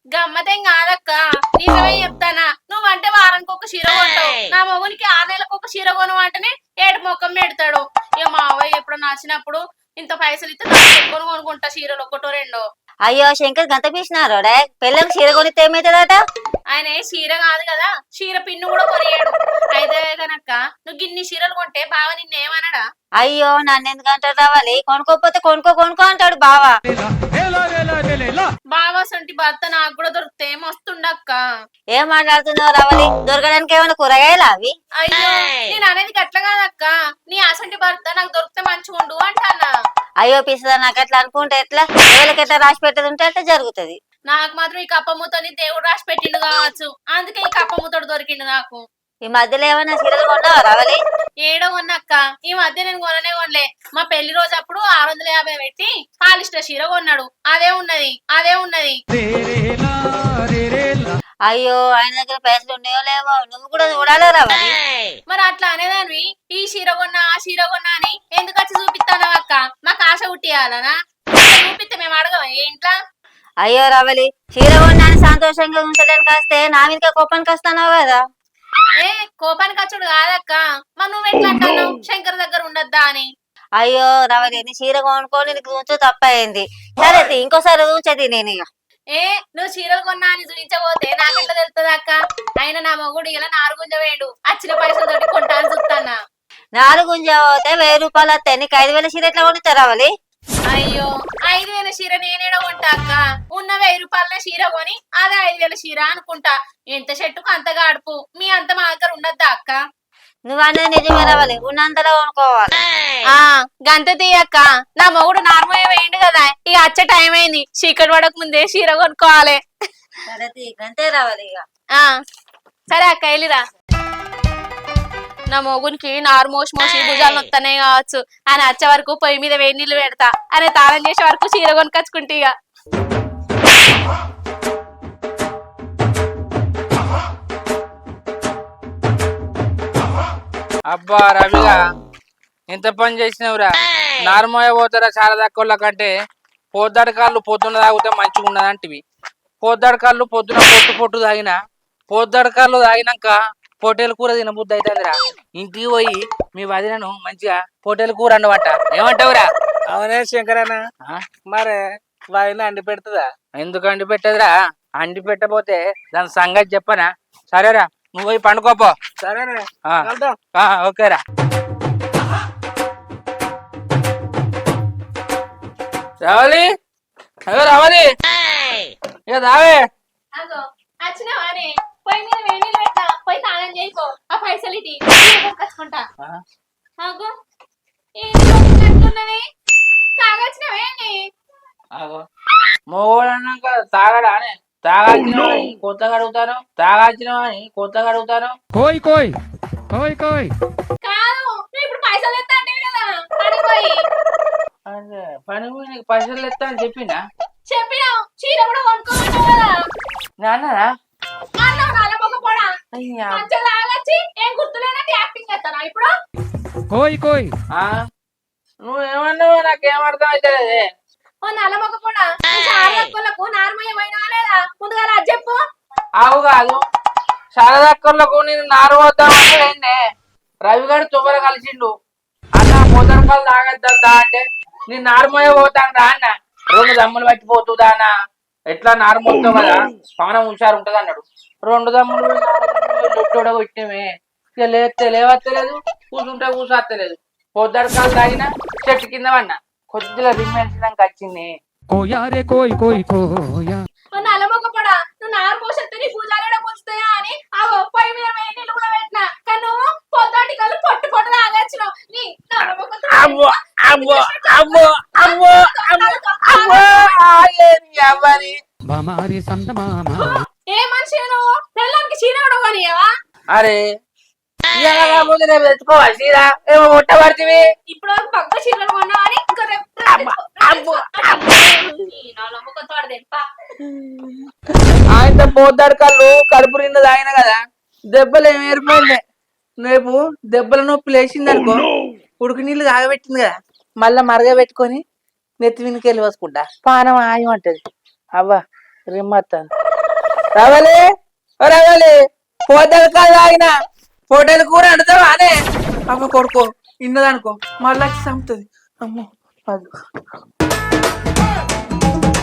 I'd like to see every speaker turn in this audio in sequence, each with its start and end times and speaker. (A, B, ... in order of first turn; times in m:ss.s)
0:00.1-0:12.6 A
0:13.1-0:16.2 B
0:16.7-0:22.8 A
0:23.2-0:26.8 B
0:26.9-0:28.5 C
0:28.7-0:31.4 A
0:31.9-0:34.7 B
0:35.0-0:39.7 A
0:40.2-0:44.0 B
0:44.3-0:48.8 A
0:49.3-0:51.0 B
0:51.5-0:59.0 A
0:59.1-1:01.1 C
1:01.5-1:04.8 B
1:05.3-1:12.9 A
1:13.6-1:18.2 B
1:19.0-1:23.3 A
1:23.8-1:28.7 B
1:29.1-1:36.2 A
1:36.8-1:40.1 B
1:40.7-1:49.8 A
1:50.5-1:52.8 B
1:53.3-1:59.6 A
2:00.3-2:01.6 B
2:02.9-2:03.6 A
2:05.5-2:12.5 A
2:20.9-2:21.8 D
2:22.7-2:23.7 D
2:24.3-2:26.1 D
2:26.8-2:29.0 D
2:29.6-2:31.6 D
2:32.1-2:39.5 D
2:39.9-2:40.8 E
2:41.5-2:43.3 E
2:43.6-2:48.9 D
2:49.2-2:50.4 E
2:49.9-2:51.2 D
2:56.2-2:56.7 D
2:57.5-2:58.1 D
2:59.3-2:59.8 D
3:00.4-3:06.1 A
3:07.0-3:07.3 A
3:08.2-3:09.4 A
3:10.2-3:11.2 A
3:12.0-3:12.2 D
3:12.9-3:18.6 D
3:18.7-3:19.4 C
3:19.9-3:20.5 C
3:21.0-3:24.0 A
3:24.9-3:27.2 D
3:27.7-3:29.8 A
3:30.4-3:30.9 D
3:31.6-3:32.7 A
3:32.9-3:33.4 D
3:33.3-3:36.1 A
3:36.9-3:37.5 C
3:38.8-3:40.8 D
3:41.4-3:45.6 A
3:46.2-3:46.8 D
3:47.6-3:50.0 D
3:50.7-3:51.9 D
3:52.6-3:58.1 D
3:58.7-4:04.1 D
4:04.6-4:11.5 D
4:11.9-4:13.8 C
4:14.1-4:26.9 A
4:23.1-4:28.6 D
4:28.9-4:30.4 C
4:30.2-4:33.1 A
4:33.5-4:33.8 D
4:34.8-4:37.6 D
4:37.9-4:43.5 A
4:40.1-4:41.5 D
4:45.2-4:47.6 D
4:48.1-4:49.2 D
4:49.8-4:51.9 D
4:52.4-4:55.0 D
4:55.6-4:57.8 D
4:58.4-4:59.7 D
5:00.6-5:01.0 D
5:01.6-5:02.2 D
5:02.7-5:03.7 D
5:04.3-5:05.6 D
5:06.1-5:09.9 D